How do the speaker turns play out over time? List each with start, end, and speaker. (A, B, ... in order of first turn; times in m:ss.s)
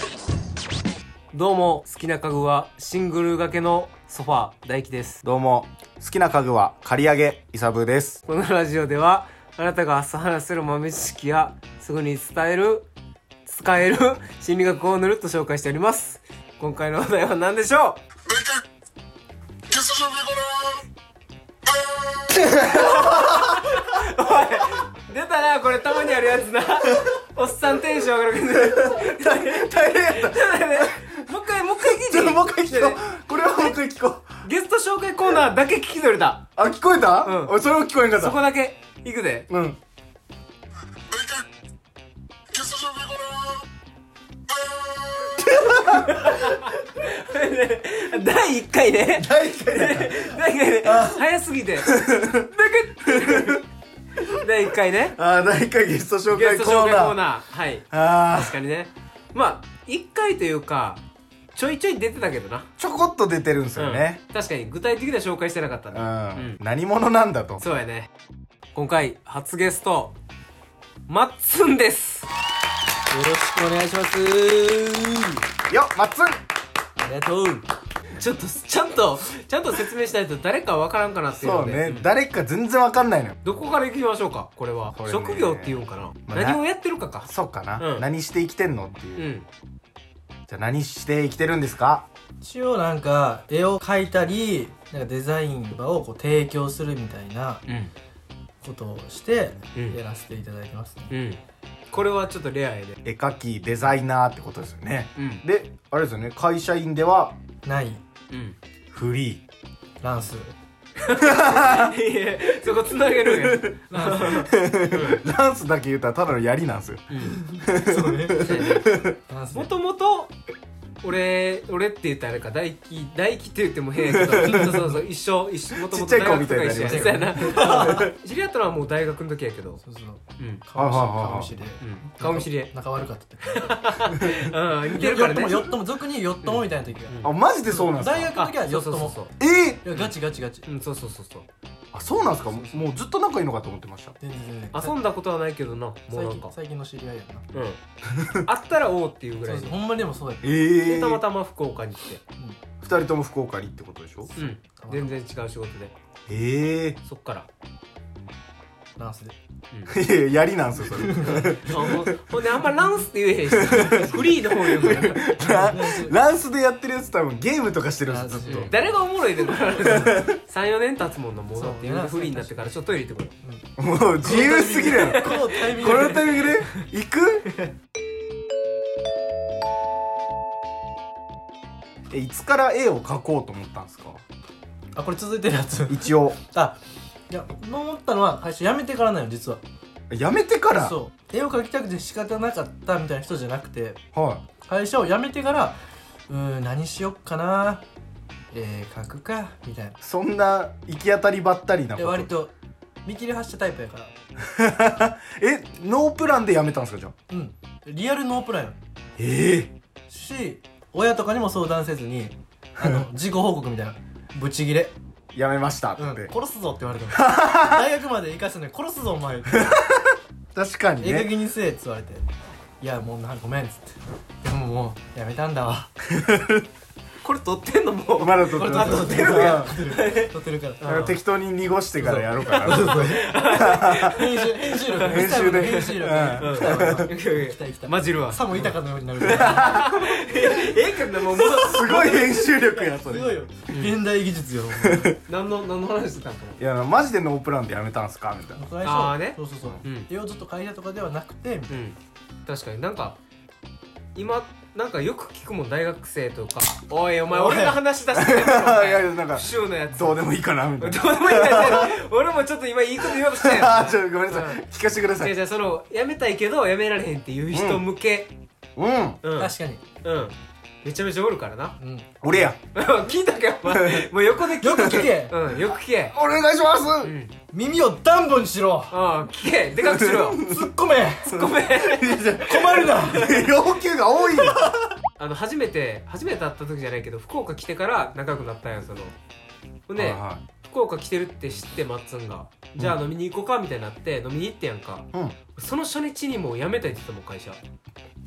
0:01.3-0:05.2 A
0:05.2-0:08.2 B
0:08.2-0:12.8 A
0:13.4-0:18.0 A
0:22.6-0:33.7 A
0:28.5-0:31.1 B
0:31.8-0:34.4 B
0:34.4-0:36.5 A
0:36.6-0:38.4 B
0:37.2-0:37.6 A
0:38.1-0:39.5 A
0:39.5-0:39.8 B
0:45.4-0:46.3 B
0:45.9-0:53.6 A
0:49.1-0:51.2 B
0:51.8-0:52.5 B
0:53.0-0:53.6 B
0:54.2-0:55.2 A
0:55.1-0:57.2 B
0:56.3-1:01.0 A
0:57.9-0:58.6 B
1:01.5-1:02.7 A
1:02.8-1:04.2 B
1:03.8-1:06.6 A
1:05.9-1:07.6 B
1:07.6-1:08.1 A
1:08.7-1:10.1 A
1:11.1-1:12.3 A
1:13.1-1:15.4 C
1:15.7-1:16.4 B
1:17.0-1:17.6 C
1:18.2-1:22.1 A
1:21.3-1:23.4 B
1:23.4-1:28.1 A
1:24.9-1:26.6 B
1:27.2-1:29.3 B
1:29.2-1:29.5 A
1:30.5-1:32.0 B
1:32.4-1:37.6 C
1:38.6-1:41.1 C
1:41.1-1:43.0 A
1:43.0-1:47.4 B
1:45.2-1:45.4 A
1:47.6-1:48.0 C
1:48.3-1:48.6 A
1:48.9-1:49.4 B
1:50.0-1:50.5 C
1:51.0-1:55.2 A
1:51.2-1:51.9 B
1:53.2-1:59.1 B
1:53.9-1:54.4 C
1:57.1-1:57.4 A
1:57.4-1:58.7 C
1:58.4-2:00.3 A
1:59.3-1:59.7 C
2:01.0-2:09.8 A
2:04.0-2:04.8 B
2:04.4-2:05.0 C
2:05.8-2:08.1 B
2:06.7-2:08.1 C
2:09.8-2:13.7 C
2:10.8-2:11.5 B
2:11.8-2:12.7 A
2:13.4-2:15.8 A
2:14.9-2:19.2 C
2:16.4-2:17.3 A
2:17.2-2:18.3 B
2:18.3-2:19.3 A
2:19.4-2:19.8 B
2:19.8-2:20.6 C
2:19.9-2:21.4 A
2:21.9-2:24.2 B
2:22.5-2:22.9 C
2:24.2-2:25.0 C
2:24.7-2:26.5 A
2:26.1-2:27.4 C
2:27.5-2:27.8 A
2:28.1-2:28.4 B
2:28.4-2:29.8 A
2:29.4-2:30.5 C
2:30.4-2:31.2 B
2:30.7-2:32.2 A
2:32.8-2:34.3 B
2:34.4-2:35.9 A
2:34.4-2:35.1 C
2:36.3-2:37.0 B
2:37.0-2:37.5 A
2:39.0-2:39.3 C
2:39.9-2:42.2 B
2:40.9-2:41.7 C
2:41.3-2:45.8 A
2:43.5-2:48.7 B
2:45.4-2:46.2 C
2:48.1-2:48.9 C
2:48.4-2:53.3 A
2:49.8-2:50.3 B
2:51.5-2:52.8 C
2:53.4-2:53.7 C
2:53.8-2:57.5 B
2:54.2-2:56.3 C
2:54.3-2:56.8 A
3:02.1-3:04.2 B
3:04.9-3:06.8 C
3:05.9-3:06.4 B
3:07.3-3:09.6 C
3:10.1-3:11.0 B
3:10.8-3:14.0 C
3:14.1-3:14.4 B
3:14.6-3:17.8 C
3:18.5-3:20.0 C
3:20.0-3:22.3 B
3:22.0-3:22.5 C
3:23.0-3:24.1 C
3:24.4-3:27.1 B
3:27.3-3:28.8 C
3:29.2-3:29.7 B
3:30.1-3:34.9 C
3:35.3-3:36.3 B
3:36.0-3:39.8 C
3:37.1-3:37.8 B
3:39.6-3:41.3 B
3:41.0-3:42.3 C
3:42.8-3:45.9 C
3:46.1-3:46.6 B
3:47.2-3:51.2 A
3:48.2-3:49.8 B
3:48.5-3:50.8 C
3:50.8-3:54.2 B
3:52.0-3:53.3 C
3:52.4-4:02.5 A
3:54.0-4:00.4 C
3:55.0-3:57.1 B
3:59.2-3:59.9 B
4:01.3-4:03.4 B
4:02.9-4:05.2 C
4:03.7-4:04.0 A
4:04.8-4:05.2 B
4:05.3-4:06.6 A
4:06.6-4:08.6 B
4:08.5-4:11.8 C
4:08.8-4:10.1 A
4:11.7-4:13.2 A
4:14.1-4:24.6 A
4:17.3-4:17.8 C
4:18.1-4:21.9 B
4:23.2-4:25.3 B
4:25.2-4:28.3 A
4:27.5-4:27.8 B
4:28.8-4:29.2 B
4:29.2-4:36.2 A
4:29.4-4:29.8 C
4:31.8-4:32.2 C
4:32.2-4:32.6 B
4:33.7-4:34.1 B
4:34.6-4:35.4 C
4:36.1-4:37.1 B
4:37.0-4:37.3 A
4:37.5-4:38.9 C
4:38.9-4:40.5 A
4:39.8-4:40.7 B
4:40.4-4:41.4 C
4:41.2-4:43.5 A
4:41.3-4:44.7 B
4:42.4-4:43.4 C
4:44.4-4:44.9 C
4:45.2-4:49.1 A
4:49.9-4:57.6 A
4:50.0-4:50.4 B